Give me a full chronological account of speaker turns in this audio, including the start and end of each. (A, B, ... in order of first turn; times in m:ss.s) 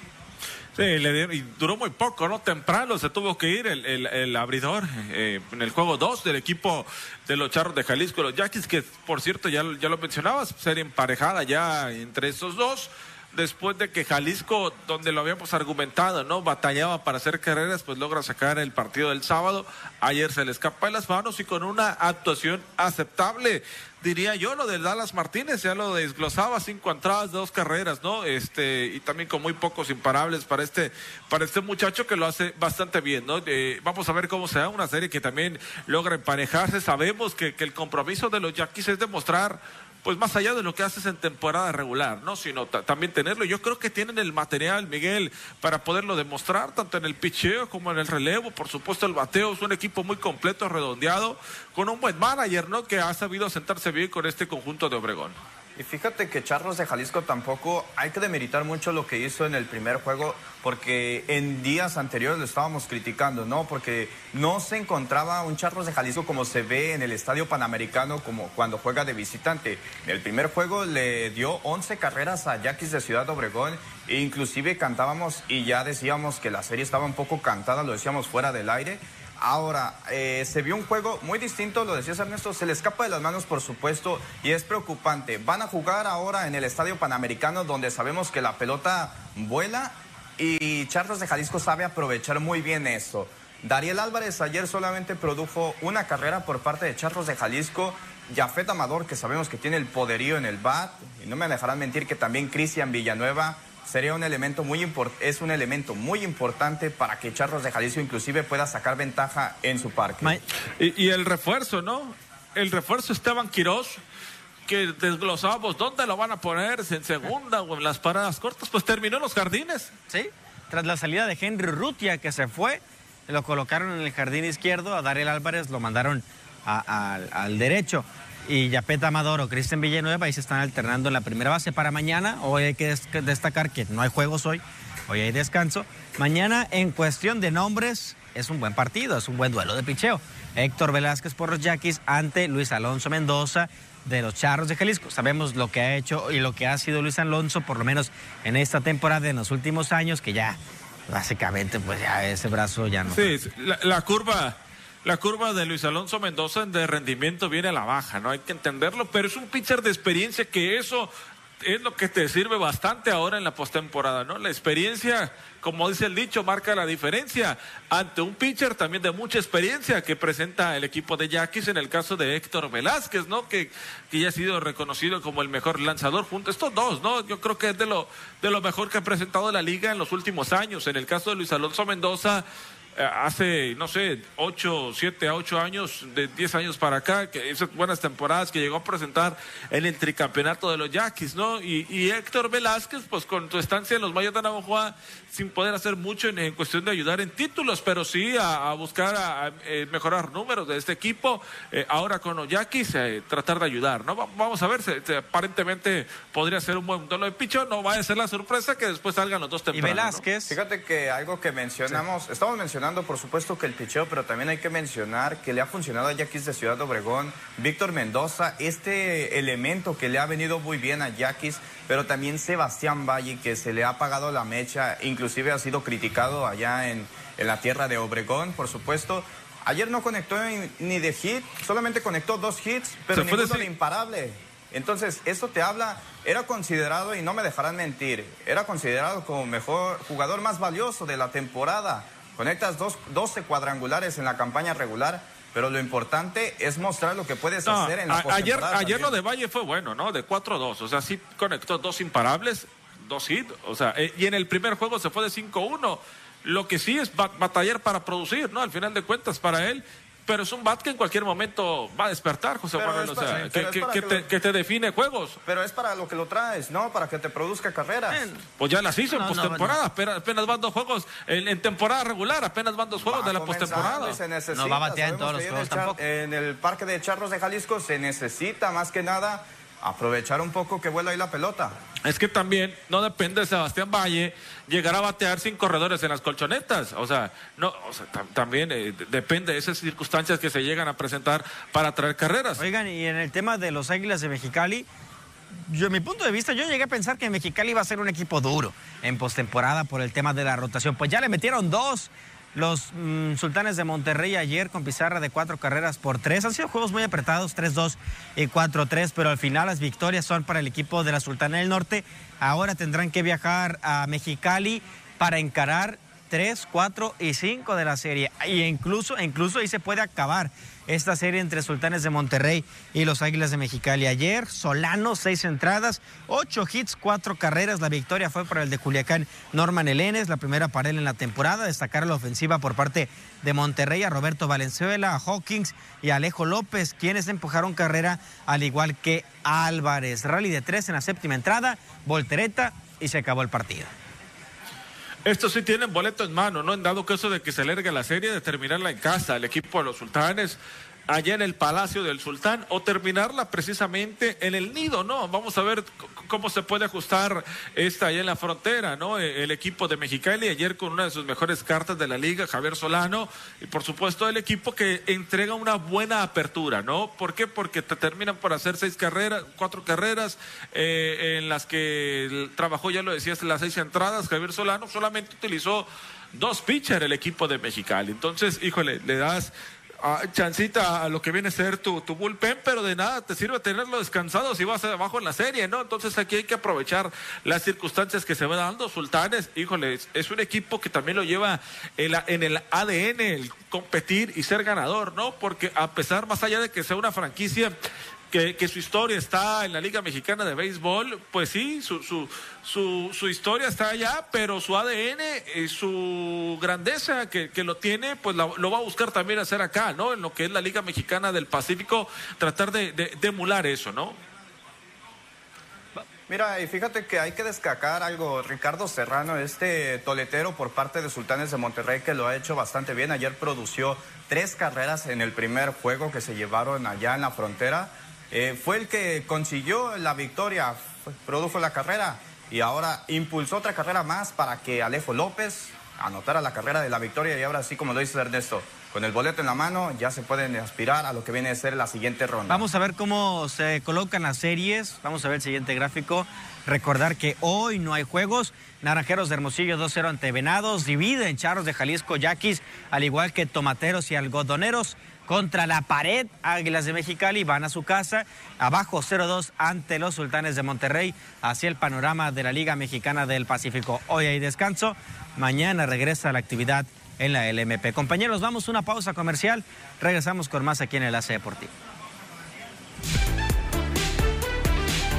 0:00.8-0:55.4 A
0:55.8-1:50.4 B
1:50.8-1:54.0 A
1:54.7-1:59.9 A
2:00.1-2:30.6 C
2:31.1-2:33.3 C
2:33.1-3:02.4 A
3:03.0-3:30.2 A
3:29.7-3:30.5 C
3:30.5-4:09.2 B
3:53.1-3:53.7 A
4:07.6-4:25.4 A
4:22.8-4:24.3 B
4:25.4-4:28.2 B
4:28.1-4:28.4 C
4:28.6-4:34.2 A
4:29.1-4:29.8 C
4:33.0-4:41.8 B
4:34.5-4:36.0 C
4:42.0-4:52.6 A
4:52.6-4:54.9 C
4:55.5-5:43.9 C
5:45.2-5:50.6 A
5:51.1-6:37.7 A
6:38.3-6:54.2 A
6:56.3-7:22.6 B
7:22.5-7:51.7 C